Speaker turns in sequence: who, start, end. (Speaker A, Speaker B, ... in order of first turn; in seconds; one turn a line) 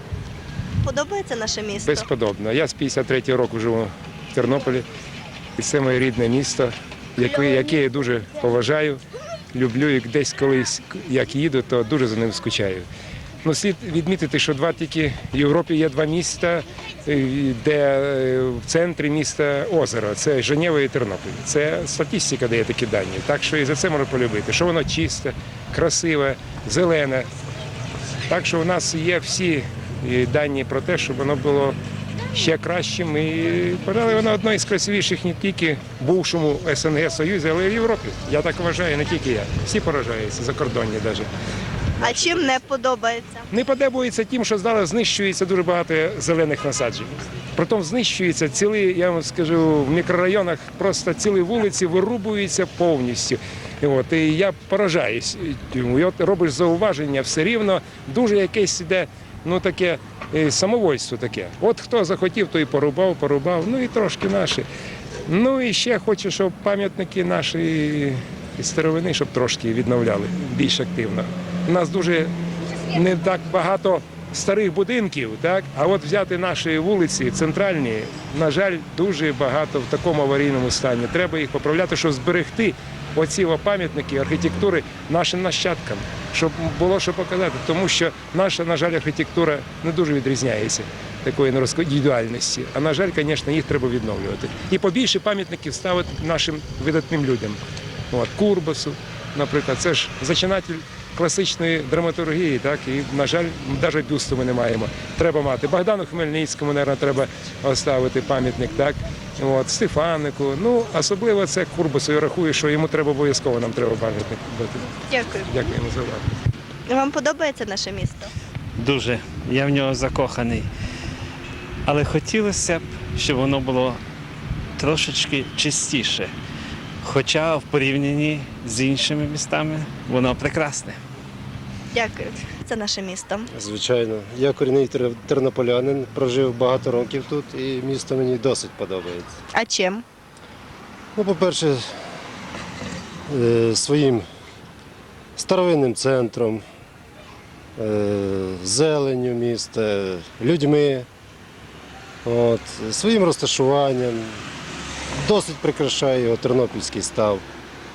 Speaker A: 0.8-2.1
Speaker B: 1.8-4.9
Speaker B: 5.6-9.0
Speaker B: 9.5-12.9
Speaker B: 13.4-27.3
Speaker B: 28.3-31.8
Speaker B: 32.3-41.3
Speaker A: 42.0-43.5
Speaker B: 42.0-42.6
Speaker B: 43.5-64.7
Speaker B: 65.3-72.3
Speaker B: 72.9-114.9
Speaker A: 115.1-115.5
Speaker B: 115.5-116.3
Speaker A: 116.9-118.3
Speaker C: 118.8-120.7
Speaker C: 121.9-124.0
Speaker C: 124.8-126.3
Speaker C: 127.0-131.0
Speaker A: 131.9-133.5
Speaker D: 133.6-139.3
Speaker A: 139.5-140.0
Speaker D: 141.2-141.8
Speaker D: 143.3-144.2
Speaker D: 145.4-146.6
Speaker D: 147.8-151.1
Speaker D: 152.3-154.4
Speaker D: 155.2-157.4